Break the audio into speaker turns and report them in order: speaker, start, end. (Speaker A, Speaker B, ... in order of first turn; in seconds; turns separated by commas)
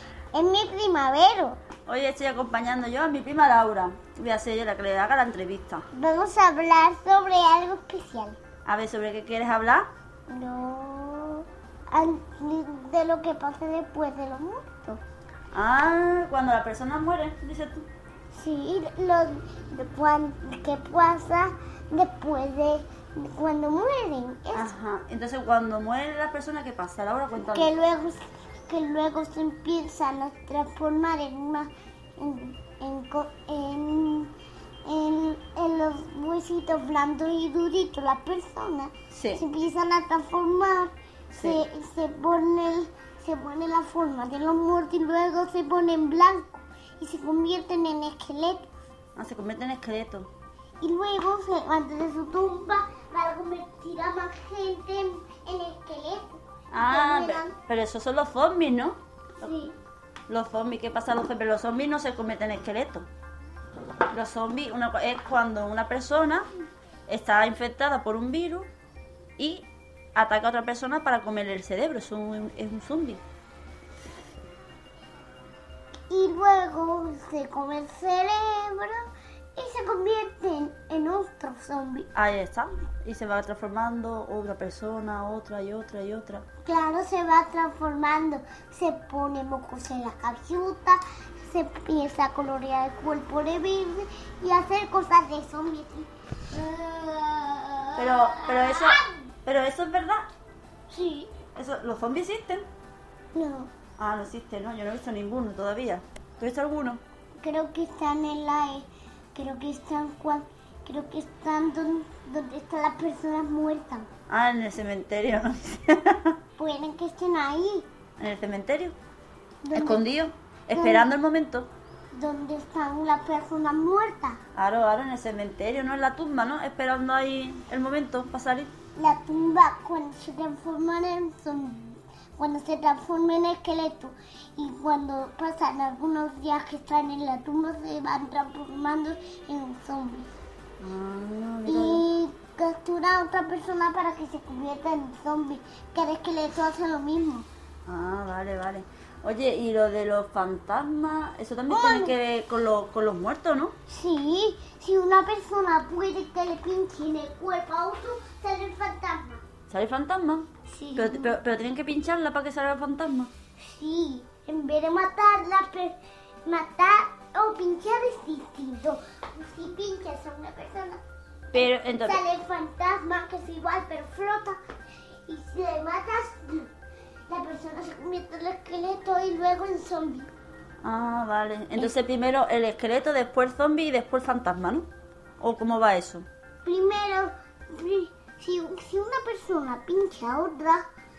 Speaker A: 0.3-1.6, Speaker B: 1.9-5.8, Speaker A: 5.9-8.4, Speaker B: 8.7-9.9, Speaker A: 10.3-15.0, Speaker B: 15.5-17.9, Speaker A: 18.3-24.7, Speaker B: 24.5-27.7, Speaker A: 27.5-34.3, Speaker A: 34.8-48.7, Speaker B: 39.1-39.4, Speaker B: 41.4-41.6, Speaker B: 49.1-50.3, Speaker A: 50.8-57.5, Speaker B: 56.7-59.6, Speaker A: 59.4-59.7, Speaker B: 60.3-63.1, Speaker B: 64.1-66.4, Speaker B: 67.1-68.7, Speaker B: 69.4-73.2, Speaker A: 76.1-79.0, Speaker A: 79.5-82.1, Speaker B: 82.1-86.4, Speaker A: 86.6-99.2, Speaker B: 98.0-100.3, Speaker A: 100.9-101.3, Speaker B: 101.5-102.7, Speaker A: 103.3-103.7, Speaker B: 104.0-107.0, Speaker A: 107.4-114.1, Speaker B: 114.3-116.3, Speaker A: 116.6-117.9, Speaker B: 118.2-118.9, Speaker A: 119.6-120.1, Speaker B: 119.7-121.7, Speaker A: 120.7-121.1, Speaker A: 122.1-124.4, Speaker B: 124.5-128.7, Speaker A: 128.9-140.3, Speaker B: 140.8-142.0, Speaker A: 141.7-147.5, Speaker B: 147.8-153.7, Speaker A: 151.7-152.1, Speaker A: 153.9-159.4, Speaker B: 159.7-163.3, Speaker A: 160.7-161.3, Speaker A: 163.6-171.0, Speaker B: 171.5-172.2, Speaker A: 171.5-174.6, Speaker A: 175.2-176.7, Speaker A: 177.3-180.3, Speaker B: 180.8-184.9, Speaker B: 185.4-186.2, Speaker A: 186.6-190.8